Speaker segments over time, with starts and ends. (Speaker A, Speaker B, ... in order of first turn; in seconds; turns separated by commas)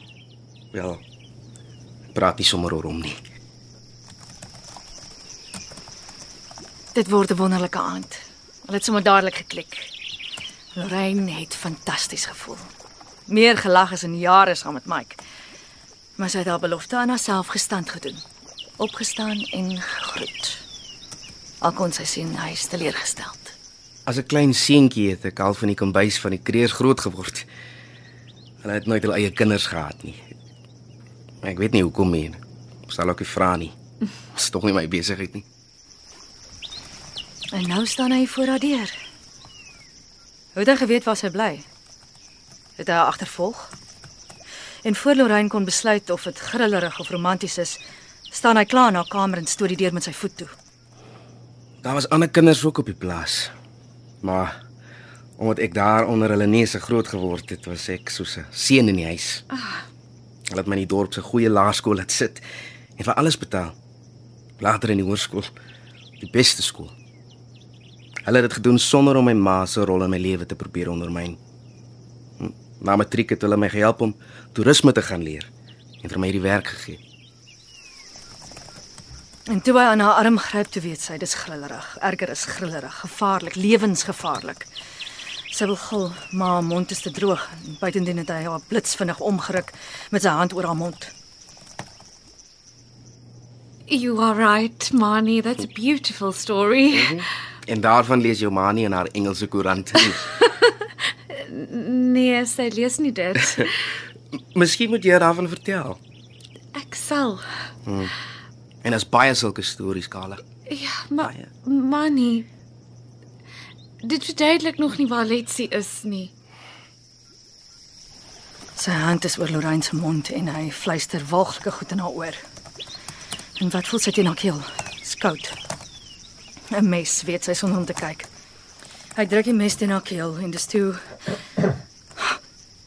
Speaker A: 0.7-1.0, Speaker A: 2.1-3.2, Speaker B: 6.9-9.9, Speaker B: 10.8-12.7, Speaker B: 13.3-15.2, Speaker B: 16.2-18.2, Speaker B: 18.8-20.6, Speaker B: 21.6-23.6, Speaker A: 24.1-27.5, Speaker A: 28.6-30.3, Speaker A: 31.4-33.8, Speaker A: 34.3-35.5, Speaker B: 37.5-39.0, Speaker B: 40.5-41.6, Speaker B: 42.8-43.7, Speaker B: 44.9-47.8, Speaker B: 48.3-50.5, Speaker A: 51.8-53.5, Speaker A: 54.2-54.5, Speaker A: 55.4-59.4, Speaker C: 59.5-59.8, Speaker A: 60.5-62.4, Speaker A: 63.0-63.8, Speaker A: 64.6-65.5, Speaker A: 66.2-66.9, Speaker A: 68.2-71.4, Speaker A: 72.4-75.5, Speaker A: 76.0-77.0, Speaker B: 79.5-84.7, Speaker B: 85.5-91.1, Speaker C: 93.9-97.2, Speaker A: 96.9-100.3, Speaker C: 101.3-103.8, Speaker A: 104.3-106.0, Speaker C: 106.7-107.5, Speaker A: 107.8-108.1, Speaker A: 108.8-110.4, Speaker C: 110.7-112.5, Speaker A: 111.2-111.5, Speaker C: 114.0-116.3, Speaker B: 118.8-122.4, Speaker B: 123.6-125.5, Speaker B: 126.7-128.3, Speaker B: 129.2-131.0